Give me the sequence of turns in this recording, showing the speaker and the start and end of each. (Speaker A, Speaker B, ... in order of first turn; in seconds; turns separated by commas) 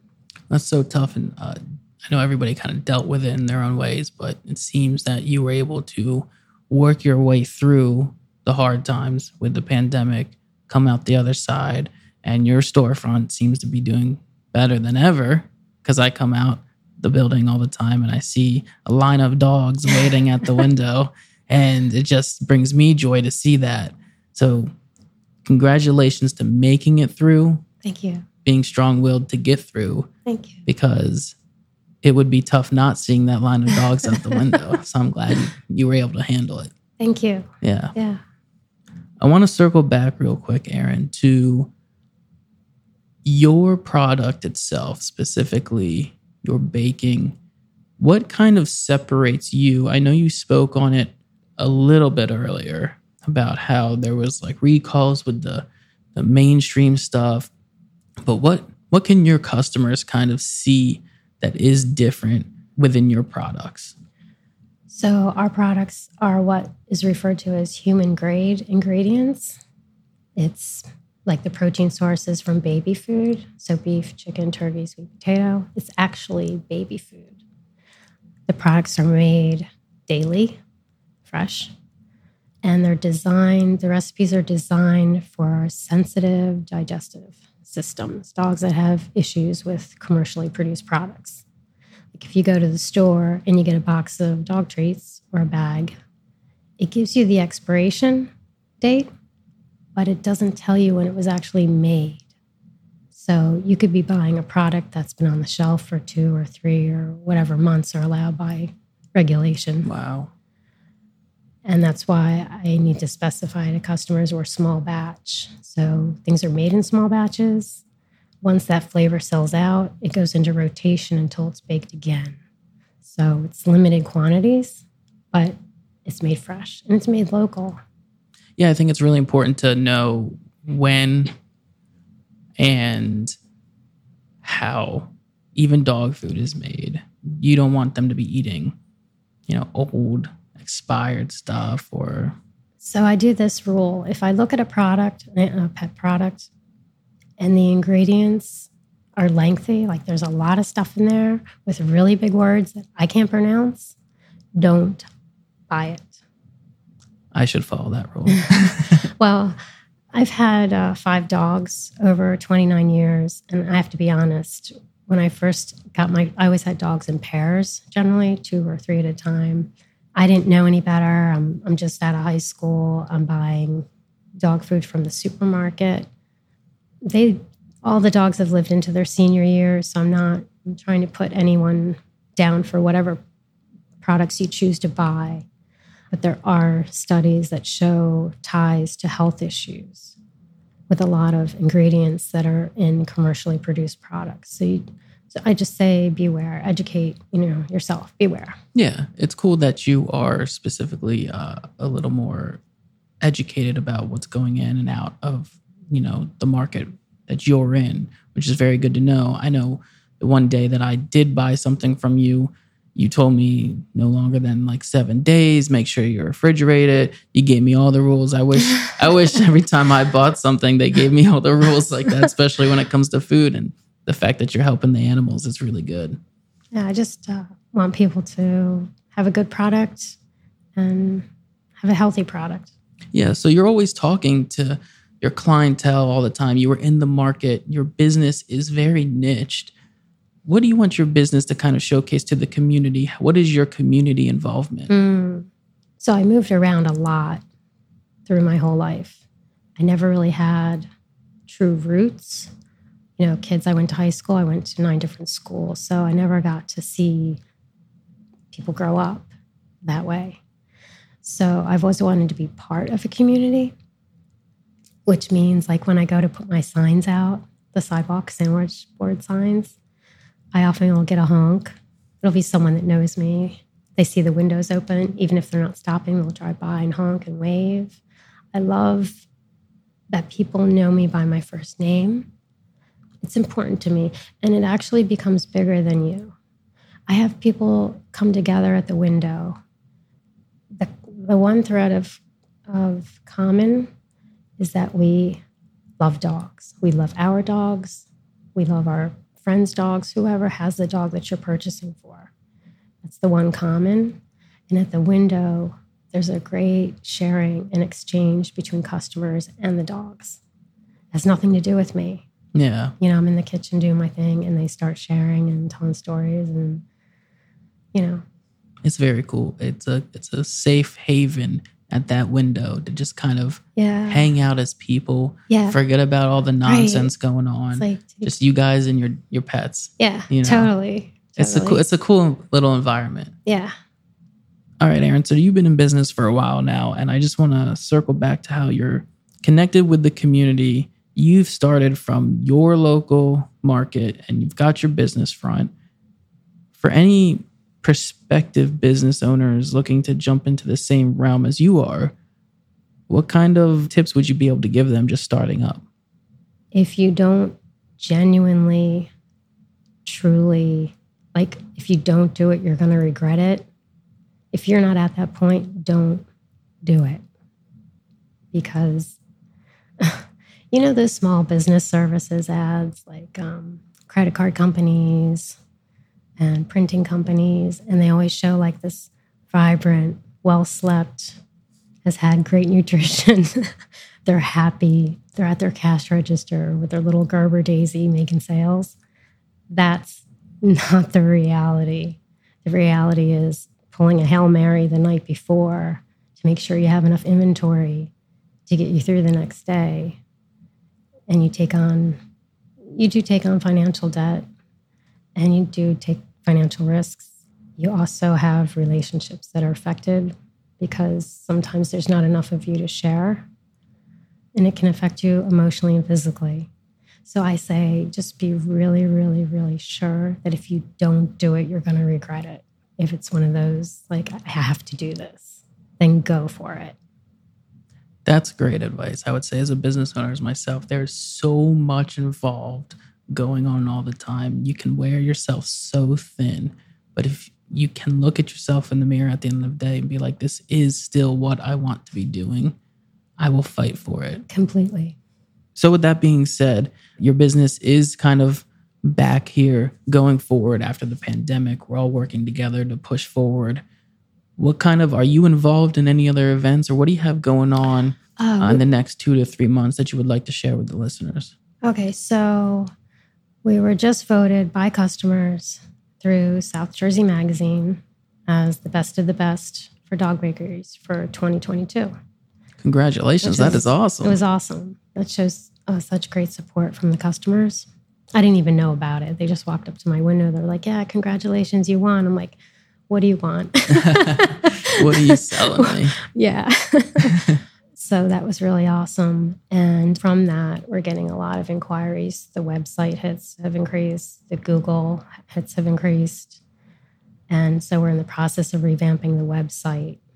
Speaker A: 0.5-24.7, Speaker A: 25.4-27.6, Speaker B: 27.8-28.2, Speaker A: 28.4-30.1, Speaker B: 30.2-30.6, Speaker A: 30.6-31.4, Speaker A: 32.0-36.7, Speaker B: 37.0-38.2, Speaker A: 37.6-37.9, Speaker A: 39.2-41.7, Speaker A: 43.2-47.4, Speaker A: 48.0-57.5, Speaker A: 58.2-63.9, Speaker B: 64.9-69.6, Speaker B: 70.4-77.4, Speaker B: 78.5-80.6, Speaker B: 81.3-81.7, Speaker B: 82.6-91.4, Speaker B: 92.1-95.9, Speaker B: 96.8-98.3, Speaker B: 98.8-99.1, Speaker B: 100.0-102.2, Speaker B: 103.1-109.9, Speaker A: 109.8-110.3, Speaker B: 111.6-117.8, Speaker B: 118.4-122.4, Speaker B: 123.0-127.8, Speaker A: 128.6-131.3, Speaker A: 132.6-133.3, Speaker A: 134.4-138.7, Speaker A: 139.5-142.4, Speaker B: 142.8-146.5, Speaker B: 147.4-153.9, Speaker B: 154.6-155.1, Speaker B: 155.7-156.1, Speaker A: 157.3-159.1, Speaker B: 159.2-159.6, Speaker B: 160.1-173.8, Speaker B: 174.4-176.1, Speaker B: 177.0-183.2, Speaker B: 184.0-185.4, Speaker B: 186.1-190.2, Speaker B: 190.9-198.6, Speaker A: 198.7-202.6, Speaker A: 203.2-226.2, Speaker B: 226.7-230.2, Speaker B: 230.8-231.3, Speaker B: 231.8-232.7, Speaker A: 233.1-239.7, Speaker A: 240.4-244.9, Speaker B: 244.9-245.5, Speaker B: 246.0-247.4, Speaker B: 248.3-249.2, Speaker B: 249.8-250.9, Speaker B: 251.5-252.5, Speaker B: 253.2-257.4, Speaker B: 258.5-259.3, Speaker B: 259.8-260.4, Speaker B: 261.2-263.7, Speaker B: 265.1-269.8, Speaker B: 270.5-278.0, Speaker B: 278.5-279.2, Speaker B: 280.1-282.3, Speaker B: 283.2-286.3, Speaker B: 287.1-289.6, Speaker B: 290.8-293.9, Speaker B: 294.6-295.4, Speaker B: 296.0-302.3, Speaker B: 303.0-304.2, Speaker B: 304.7-310.4, Speaker B: 311.1-312.2, Speaker A: 312.5-312.9, Speaker B: 313.0-316.8, Speaker B: 317.9-318.2, Speaker A: 318.8-330.7, Speaker B: 323.8-324.3, Speaker B: 325.5-325.8, Speaker B: 326.6-327.1, Speaker B: 327.7-328.3, Speaker B: 330.0-331.8, Speaker A: 331.4-333.3, Speaker B: 333.4-333.7, Speaker A: 334.8-345.7, Speaker A: 346.7-352.1, Speaker A: 353.1-355.8, Speaker B: 356.7-359.1, Speaker B: 360.1-363.7, Speaker B: 364.5-366.2, Speaker B: 366.8-367.2, Speaker B: 368.5-369.2, Speaker B: 370.0-375.6, Speaker B: 376.4-381.4, Speaker B: 382.0-383.7, Speaker B: 384.2-388.9, Speaker B: 389.7-398.1, Speaker B: 398.7-400.2, Speaker B: 401.3-402.2, Speaker B: 402.9-404.4, Speaker B: 405.4-413.4, Speaker B: 414.5-416.7, Speaker B: 417.2-426.9, Speaker A: 428.2-442.8, Speaker A: 443.4-444.4, Speaker B: 444.5-445.2, Speaker A: 445.8-453.8, Speaker A: 454.6-461.5, Speaker B: 458.4-458.8, Speaker B: 461.8-462.9, Speaker B: 463.6-472.1, Speaker A: 472.8-474.4, Speaker B: 473.4-482.6, Speaker B: 483.1-496.6, Speaker A: 484.0-486.2, Speaker A: 487.3-487.6, Speaker B: 497.5-500.2